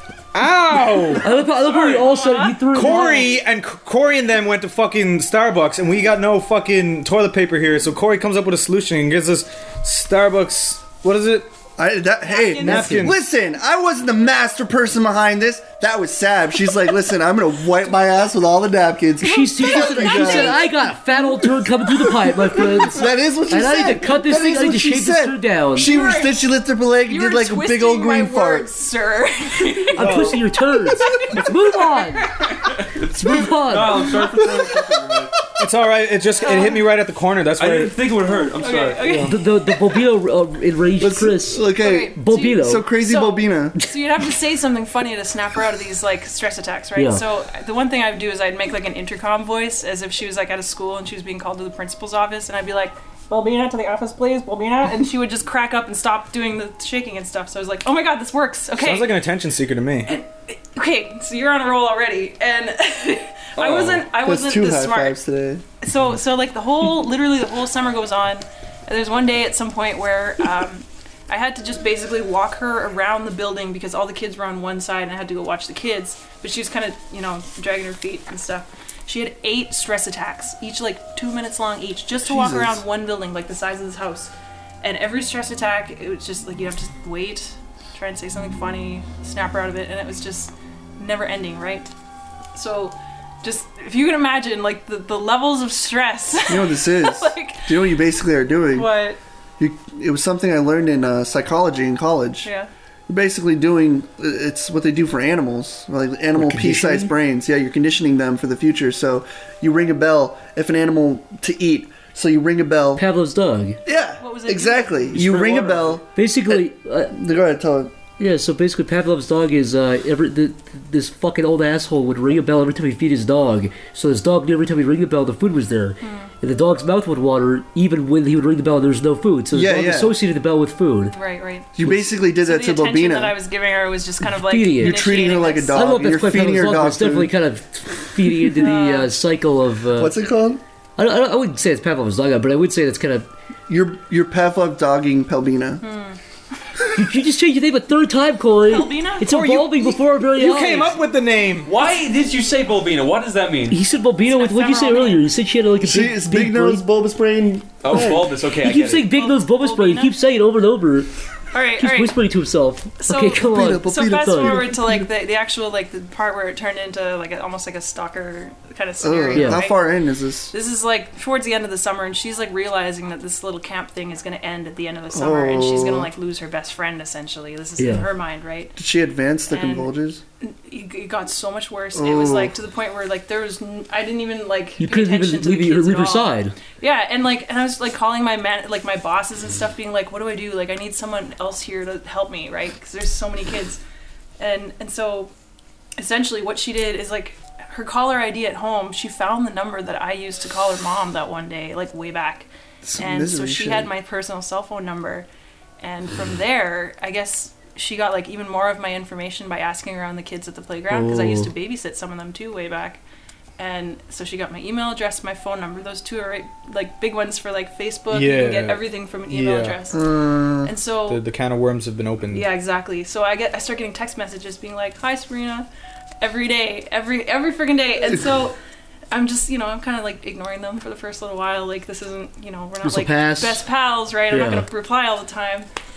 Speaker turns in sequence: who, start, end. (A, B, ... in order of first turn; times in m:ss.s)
0:00.3-0:01.3 A
0:01.2-0:03.3 B
0:01.3-0:03.2 C
0:02.7-0:11.5 A
0:11.8-0:20.7 D
0:12.3-0:12.9 C
0:12.6-0:13.2 A
0:12.7-0:13.0 B
0:19.2-0:22.9 C
0:19.2-0:25.9 B
0:22.8-0:28.7 D
0:25.9-0:26.4 C
0:27.1-0:30.0 C
0:29.6-0:29.9 E
0:29.9-0:32.3 B
0:30.0-0:30.4 A
0:30.9-0:32.5 C
0:32.4-0:35.4 E
0:33.1-0:34.1 B
0:34.3-0:35.2 D
0:35.6-0:38.0 A
0:36.4-0:36.9 C
0:37.6-0:39.3 E
0:38.5-0:39.7 C
0:39.0-0:39.3 A
0:39.2-0:42.9 B
0:41.0-0:43.8 D
0:41.8-0:59.2 C
0:47.0-0:47.2 B
0:58.8-1:00.2 A
1:00.1-1:05.2 C
1:03.6-1:04.1 E
1:04.2-1:05.6 D
1:05.8-1:31.9 C
1:22.2-1:22.8 D
1:32.6-1:37.8 C
1:36.5-1:38.9 D
1:38.7-1:39.2 C
1:39.6-1:42.5 D
1:42.4-1:42.7 C
1:43.1-1:53.0 D
1:46.4-1:47.1 B
1:53.0-1:53.8 B
1:53.9-1:57.9 D
1:54.2-1:55.2 C
1:55.1-1:56.0 E
1:56.2-1:57.2 B
1:58.2-2:11.2 B
2:06.0-2:06.3 C
2:09.5-2:10.2 D
2:11.1-2:11.7 C
2:11.8-2:13.4 D
2:12.3-2:15.8 C
2:14.2-2:15.0 B
2:14.8-2:17.3 D
2:15.7-2:20.2 B
2:18.5-2:19.1 C
2:20.0-2:20.6 D
2:21.0-2:23.3 B
2:23.7-2:25.8 D
2:25.8-2:26.2 C
2:27.0-2:31.0 B
2:28.7-2:29.3 C
2:29.3-2:31.7 A
2:31.6-2:33.8 E
2:33.7-2:36.9 B
2:34.3-2:35.2 C
2:35.8-2:38.4 D
2:37.8-2:39.1 E
2:38.6-2:41.1 B
2:39.1-2:40.2 C
2:41.5-2:42.2 C
2:41.8-2:44.6 B
2:43.0-2:49.9 C
2:43.4-2:45.1 D
2:49.0-2:50.5 D
2:49.4-2:49.6 B
2:50.5-2:58.8 C
2:55.1-2:56.1 D
2:57.8-2:58.1 B
2:58.8-3:00.2 D
2:59.5-3:13.8 C
3:02.0-3:02.6 D
3:04.8-3:06.6 B
3:14.4-3:15.3 C
3:16.0-3:22.5 C
3:22.8-3:23.9 D
3:23.0-3:25.3 C
3:25.8-3:33.0 C
3:30.9-3:31.5 B
3:33.6-3:40.0 C
3:38.1-3:39.8 A
3:39.9-3:40.7 D
3:40.6-3:41.2 C
3:41.1-3:42.5 A
3:42.3-3:45.7 C
3:46.2-3:48.6 C
3:49.1-3:55.7 C
3:52.8-3:53.6 B
3:54.3-3:54.7 B